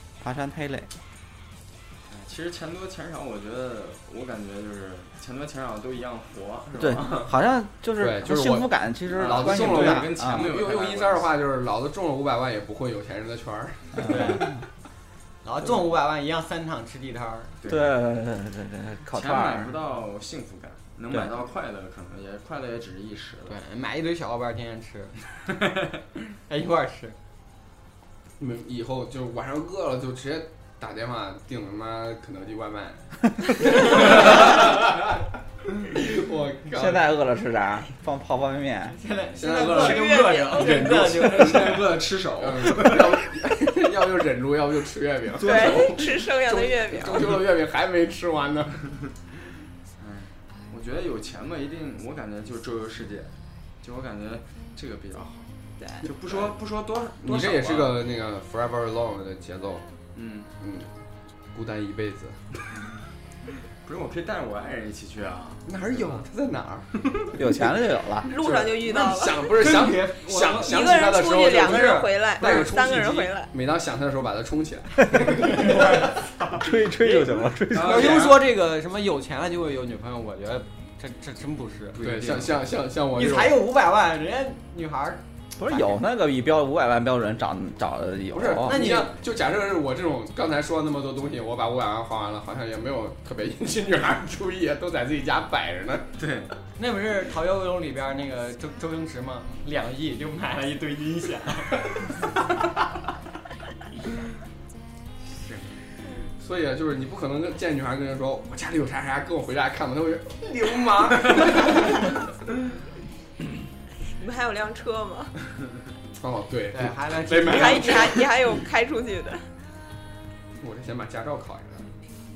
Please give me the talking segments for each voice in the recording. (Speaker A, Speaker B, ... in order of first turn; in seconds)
Speaker A: 0.2-0.9, 6.8-10.5, 14.2-14.4, 17.7-19.8, 36.7-39.0, 67.3-68.3, 75.1-75.7, 76.5-78.3, 85.6-88.8
Speaker B: 2.1-7.4, 9.2-11.3, 17.6-18.0, 19.1-23.6, 40.9-43.2, 45.5-46.0, 50.0-55.5, 56.0-58.0, 60.1-60.5, 63.9-65.7, 77.7-78.5, 82.0-82.7, 96.2-96.5, 105.4-105.8
Speaker C: 8.0-14.4, 28.4-35.2, 35.8-37.1, 39.4-48.8, 56.3-56.6, 57.2-59.9, 60.6-60.9, 61.5-62.4, 65.7-66.9, 68.3-75.9, 82.0-83.6, 88.3-96.1, 106.4-112.2, 116.2-118.3, 120.6-121.9
Speaker D: 14.0-14.5, 15.4-17.6, 23.5-25.2, 26.5-27.2, 38.9-41.8, 69.5-72.9, 75.3-76.2, 77.0-82.1, 83.1-85.8, 88.7-89.1, 96.8-101.9, 116.7-118.2
Speaker E: 39.6-41.2, 45.4-47.4, 68.2-69.5, 70.6-73.5, 114.2-115.3, 117.5-119.5